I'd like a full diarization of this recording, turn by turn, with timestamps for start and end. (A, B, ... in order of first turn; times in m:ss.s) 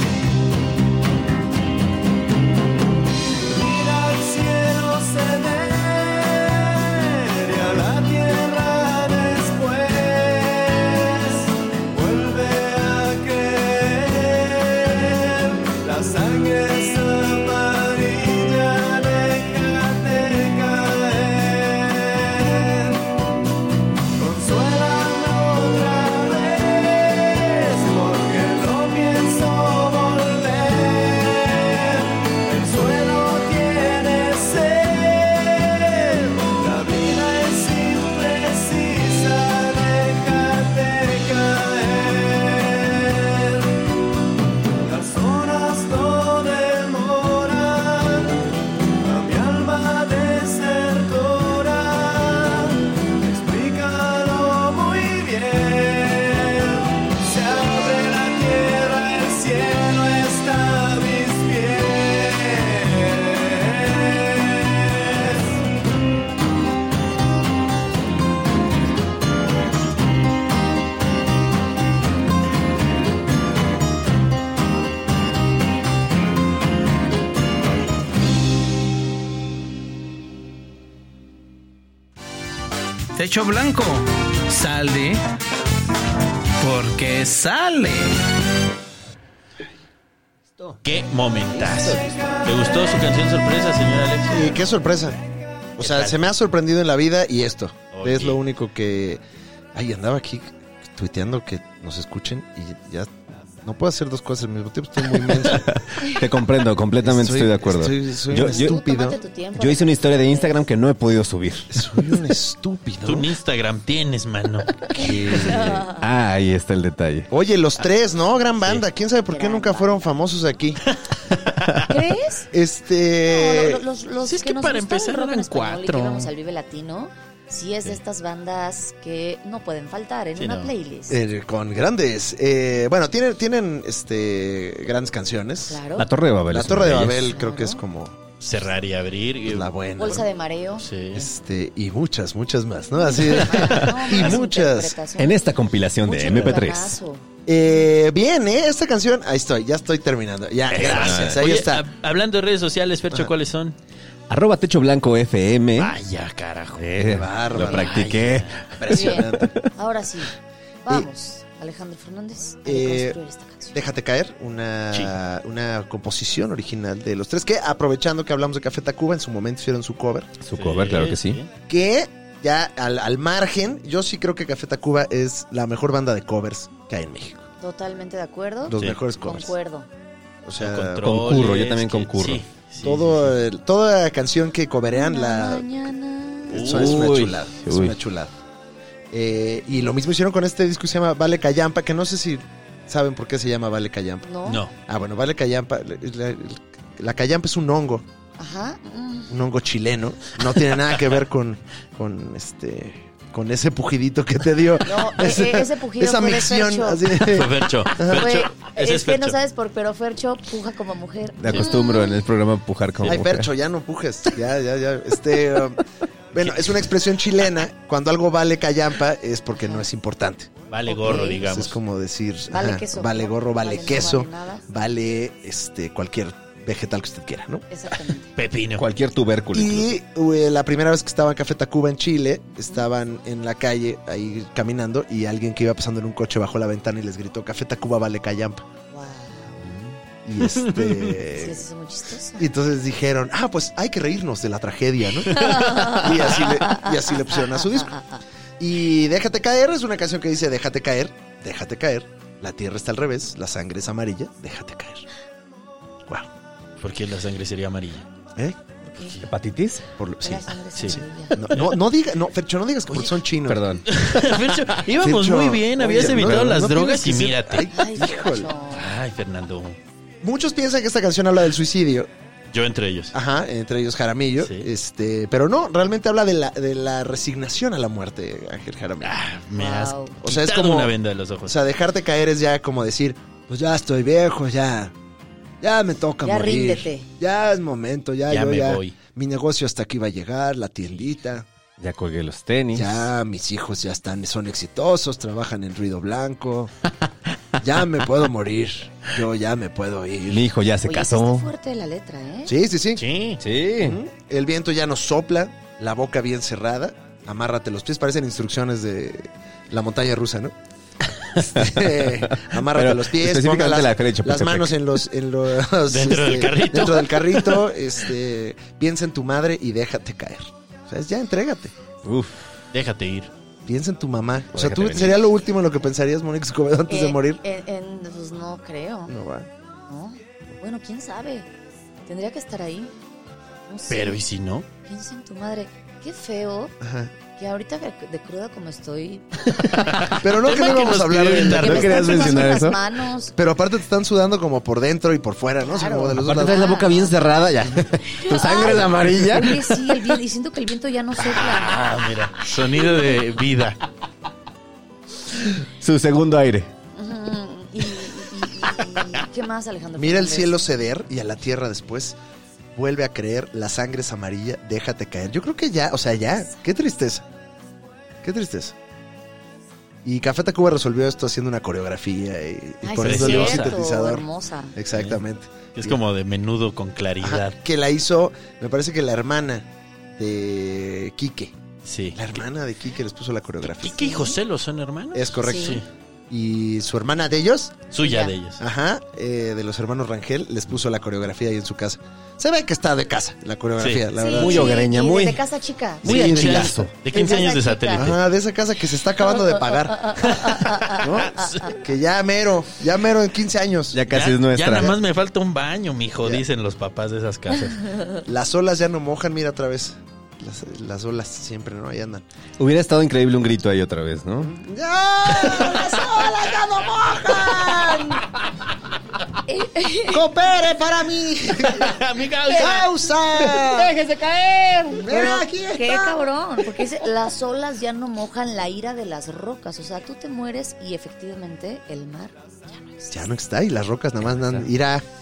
1:23.2-1:25.2 A
1:26.6-1:28.2 A
1:30.8-1:34.6 B
1:34.3-1:35.2 C
1:35.8-1:39.2 C
1:35.8-1:36.2 B
1:37.9-1:38.4 B
1:39.7-1:43.1 C
1:43.6-1:45.7 C
1:45.4-1:48.7 D
1:47.0-1:49.2 C
1:48.4-1:50.5 E
1:49.5-1:51.7 D
1:51.7-1:53.3 C
1:53.0-1:54.8 B
1:54.9-1:55.8 C
1:54.9-1:56.0 E
1:55.5-1:57.3 D
1:57.3-2:00.8 C
1:59.3-2:00.1 E
2:01.9-2:02.5 E
2:02.5-2:03.8 C
2:03.3-2:11.2 E
2:04.2-2:06.3 B
2:10.4-2:10.7 B
2:11.1-2:15.8 C
2:15.6-2:16.0 E
2:16.0-2:17.3 D
2:16.5-2:18.2 C
2:17.2-2:17.8 E
2:18.4-2:19.7 B
2:19.5-2:20.3 C
2:20.0-2:20.8 E
2:20.8-2:21.2 B
2:21.1-2:25.0 C
2:23.0-2:27.2 E
2:25.2-2:27.0 D
2:27.4-2:31.8 C
2:30.7-2:33.7 B
2:30.8-2:31.4 D
2:34.3-2:35.9 D
2:35.8-2:37.0 B
2:36.8-2:39.6 D
2:37.0-2:39.5 C
2:37.5-2:38.6 B
2:38.9-2:40.3 E
2:40.8-2:43.8 E
2:42.6-2:43.2 C
2:43.7-2:50.3 C
2:44.9-2:45.2 B
2:50.4-2:51.4 D
2:50.5-2:51.5 B
2:51.7-2:57.4 C
2:57.6-2:59.9 E
2:58.7-2:59.5 C
3:00.4-3:01.3 C
3:00.6-3:03.3 B
3:01.0-3:02.4 D
3:02.8-3:05.7 C
3:04.9-3:06.6 E
3:06.5-3:08.3 C
3:06.5-3:07.3 B
3:06.7-3:08.0 D
3:09.1-3:18.0 C
3:14.2-3:14.6 E
3:14.5-3:14.7 B
3:18.4-3:19.3 E
3:19.3-3:28.3 C
3:24.8-3:27.0 E
3:27.2-3:29.4 B
3:28.1-3:32.2 E
3:31.4-3:33.5 D
3:33.0-3:40.5 C
3:36.4-3:36.9 B
3:39.5-3:39.8 E
3:40.7-3:41.8 B
3:40.9-3:41.4 E
3:41.0-3:47.6 C
3:42.5-3:44.6 E
3:47.7-3:48.3 E
3:48.4-3:48.8 B
3:48.8-3:49.9 D
3:49.5-3:58.6 C
3:58.9-3:59.6 E
3:59.6-3:59.9 B
4:00.2-4:01.6 C
4:00.5-4:01.2 B
4:01.3-4:02.5 E
4:02.4-4:07.9 C
4:05.3-4:08.2 E
4:05.4-4:05.6 B
4:08.6-4:15.1 C
4:16.8-4:18.1 B
4:18.8-4:19.2 E
4:19.2-4:19.8 D
4:20.0-4:23.8 C
4:20.2-4:21.4 E
4:20.7-4:21.0 B
4:23.5-4:23.8 D
4:23.9-4:27.7 B
4:25.0-4:28.5 C
4:27.7-4:28.9 E
4:28.7-4:29.8 B
4:30.2-4:32.1 C
4:32.5-4:33.1 B
4:33.1-4:39.2 C
4:34.4-4:34.7 B
4:39.0-4:41.6 B
4:39.5-4:40.2 E
4:40.2-4:40.9 C
4:41.4-4:44.9 C
4:45.6-4:51.5 C
4:46.2-4:47.1 E
4:48.3-4:49.0 B
4:51.8-4:53.0 D
4:52.7-4:56.7 C
4:57.6-5:00.5 C
5:00.3-5:01.5 D
5:00.8-5:02.5 E
5:02.4-5:03.0 C
5:03.0-5:03.4 B
5:03.4-5:04.0 D
5:03.8-5:10.5 C
5:11.4-5:14.7 D
5:11.4-5:21.7 C
5:15.9-5:17.6 B
5:22.0-5:22.5 D
5:22.7-5:23.3 B
5:23.6-5:27.4 C
5:24.5-5:25.2 D
5:26.9-5:29.1 E
5:29.1-5:29.5 C
5:29.9-5:31.5 E
5:32.1-5:32.9 E
5:33.7-5:34.2 E
5:33.9-5:34.7 B
5:34.8-5:36.7 E
5:36.8-5:37.1 C
5:37.4-5:40.9 E
5:40.1-5:42.3 B
5:40.1-5:42.3 C
5:41.5-5:42.8 D
5:41.5-5:43.3 E
5:43.4-5:46.8 C
5:45.6-5:47.2 E
5:46.2-5:50.0 D
5:48.1-5:51.9 E
5:51.2-5:53.8 B
5:55.4-5:56.7 D
5:56.9-6:00.6 E
6:00.0-6:02.2 C
6:02.7-6:07.2 C
6:08.2-6:08.7 C
6:10.0-6:16.0 C
6:12.8-6:14.7 E
6:13.0-6:13.8 B
6:14.9-6:15.2 B
6:15.8-6:17.6 B
6:17.2-6:21.6 C
6:21.8-6:22.4 B
6:22.1-6:24.2 C
6:23.8-6:25.8 B
6:24.0-6:24.4 E
6:25.1-6:27.9 C
6:25.4-6:25.8 E
6:27.9-6:28.6 B
6:28.0-6:28.3 E
6:28.6-6:34.8 C
6:33.8-6:34.0 B
6:34.1-6:36.5 E
6:34.3-6:35.4 D
6:36.0-6:36.9 D
6:36.0-6:38.2 B
6:36.1-6:36.7 C
6:37.0-6:38.1 E
6:37.9-6:44.0 C
6:40.0-6:41.7 E
6:40.5-6:41.7 B
6:43.9-6:44.9 D
6:44.1-6:48.0 B
6:48.2-6:52.2 C
6:52.6-6:54.5 D
6:54.4-6:58.2 C
6:59.5-7:00.2 E
7:00.1-7:04.0 C
7:01.6-7:02.9 B
7:04.0-7:04.9 D
7:04.9-7:06.2 C
7:04.9-7:13.3 E
7:13.1-7:15.0 C
7:14.3-7:14.6 B